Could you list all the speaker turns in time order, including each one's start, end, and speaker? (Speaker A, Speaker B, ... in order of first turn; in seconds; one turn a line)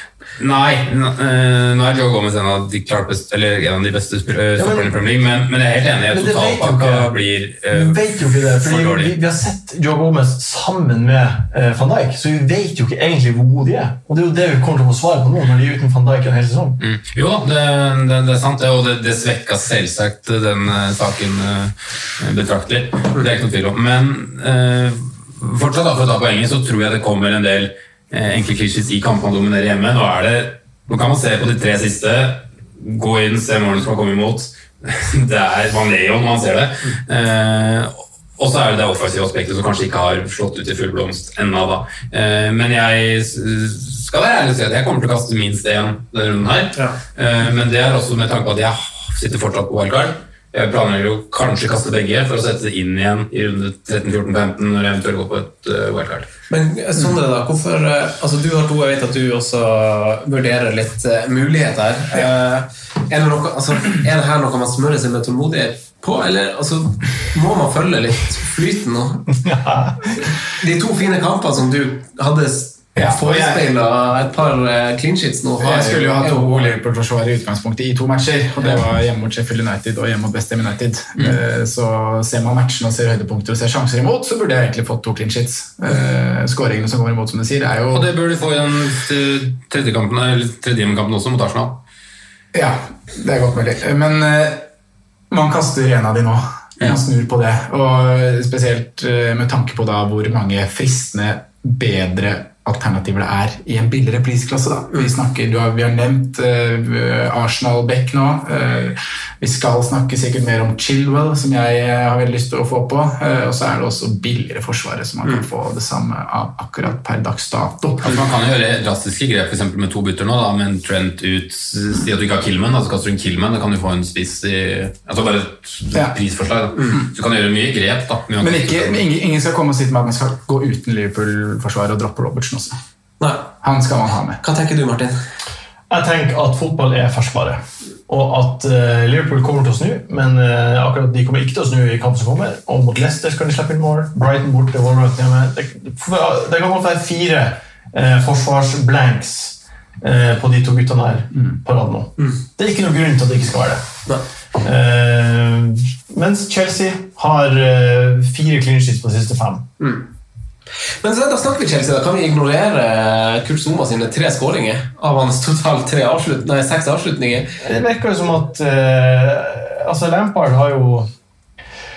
Speaker A: 0.4-9.1
Speaker B: 4.6-4.9
Speaker B: 6.1-16.8
Speaker A: 16.8-56.3
Speaker C: 56.5-69.3
Speaker B: 69.3-70.3
Speaker C: 70.5-76.8
Speaker D: 73.0-73.6
Speaker D: 75.6-88.1
Speaker A: 87.9-91.8
Speaker D: 92.5-94.7
Speaker D: 95.3-118.2
Speaker A: 118.0-129.0
Speaker D: 128.4-132.8
Speaker C: 133.2-133.5
Speaker D: 133.6-134.4
Speaker C: 134.4-135.2
Speaker B: 135.9-153.8
Speaker B: 154.6-159.7
Speaker C: 159.8-160.1
Speaker C: 161.0-167.5
Speaker B: 167.6-171.1